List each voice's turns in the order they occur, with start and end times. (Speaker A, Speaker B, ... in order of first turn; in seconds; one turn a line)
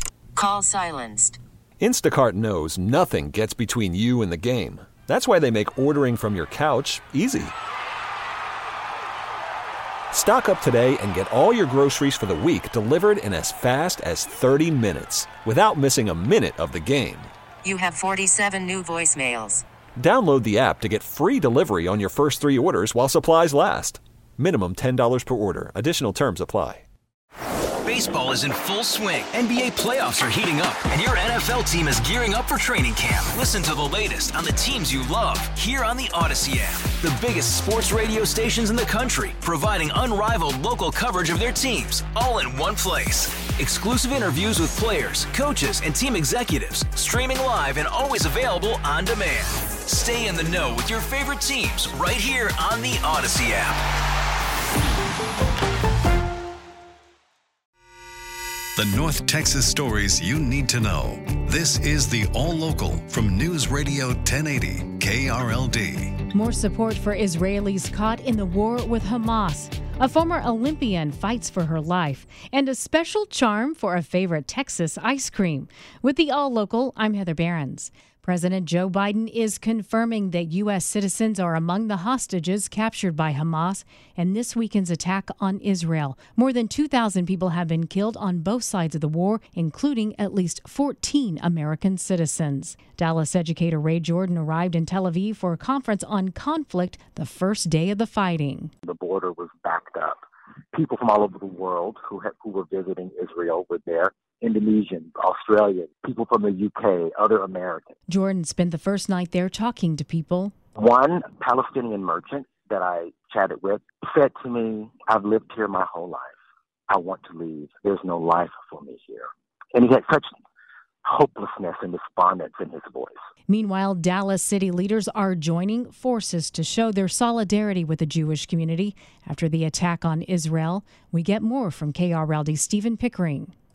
Speaker A: 0.4-1.4
Speaker B: 1.8-7.5
Speaker B: 10.1-17.3
Speaker A: 17.6-19.6
Speaker B: 20.0-26.8
Speaker C: 27.9-53.8
Speaker D: 58.8-66.2
Speaker E: 66.3-98.7
Speaker F: 98.8-100.2
Speaker F: 100.7-107.9
Speaker E: 108.1-110.5
Speaker F: 110.8-116.3
Speaker F: 116.9-120.3
Speaker F: 121.0-123.1
Speaker E: 123.5-133.5